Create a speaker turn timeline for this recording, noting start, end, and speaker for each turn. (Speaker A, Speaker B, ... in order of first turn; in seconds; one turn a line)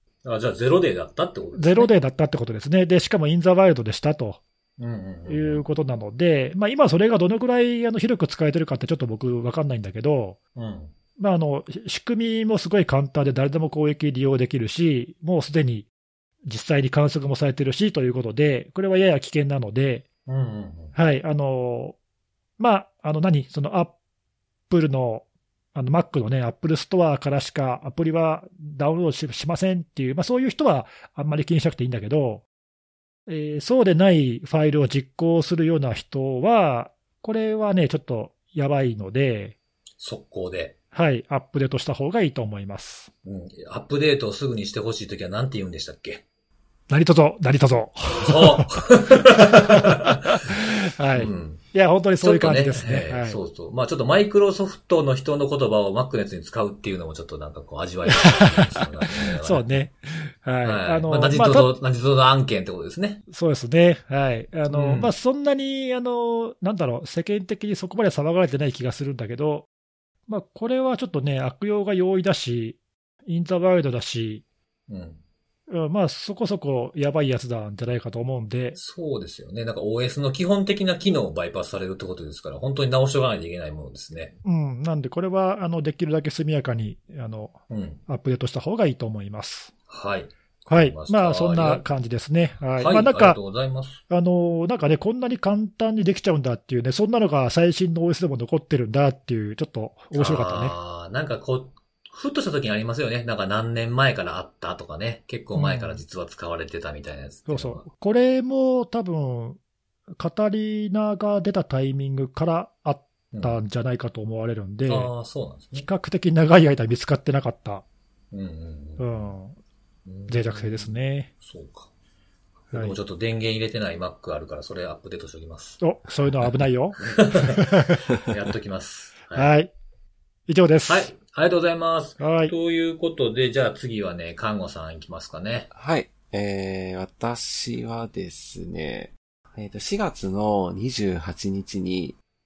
Speaker A: 0.2-1.9
Speaker B: 1.6-4.4
Speaker A: 4.8-5.6
Speaker B: 5.3-10.4
Speaker A: 10.6-10.9
Speaker B: 11.2-15.9
Speaker B: 16.4-20.0
Speaker A: 20.3-20.9
Speaker B: 20.9-22.0
Speaker B: 22.6-23.9
Speaker B: 24.7-32.4
Speaker B: 33.3-39.5
Speaker A: 40.0-40.7
Speaker B: 40.9-43.1
Speaker A: 43.2-46.2
Speaker B: 46.9-48.8
Speaker A: 48.2-50.3
Speaker B: 49.3-53.4
Speaker A: 51.1-51.6
Speaker A: 52.2-59.7
Speaker B: 58.2-58.7
Speaker B: 59.4-61.7
Speaker A: 60.6-63.2
Speaker B: 63.3-69.7
Speaker A: 64.7-65.1
Speaker B: 70.3-74.4
Speaker A: 74.9-75.2
Speaker B: 75.7-78.8
Speaker A: 78.7-84.3
Speaker B: 84.4-89.7
Speaker A: 87.7-88.0
Speaker A: 89.9-91.8
Speaker B: 90.7-93.4
Speaker A: 92.8-94.0
Speaker B: 94.1-100.7
Speaker A: 100.1-107.8
Speaker B: 105.5-106.0
Speaker B: 107.5-109.6
Speaker B: 110.2-115.1
Speaker A: 113.3-113.6
Speaker A: 114.9-115.9
Speaker B: 115.7-117.8
Speaker A: 118.3-119.3
Speaker B: 119.0-119.5
Speaker A: 120.0-121.9
Speaker B: 120.3-121.3
Speaker A: 122.7-125.8
Speaker B: 125.8-128.0
Speaker A: 127.0-129.5
Speaker B: 129.3-129.7
Speaker B: 130.5-131.1
Speaker A: 130.9-135.7
Speaker B: 132.2-132.5
Speaker C: 135.7-142.2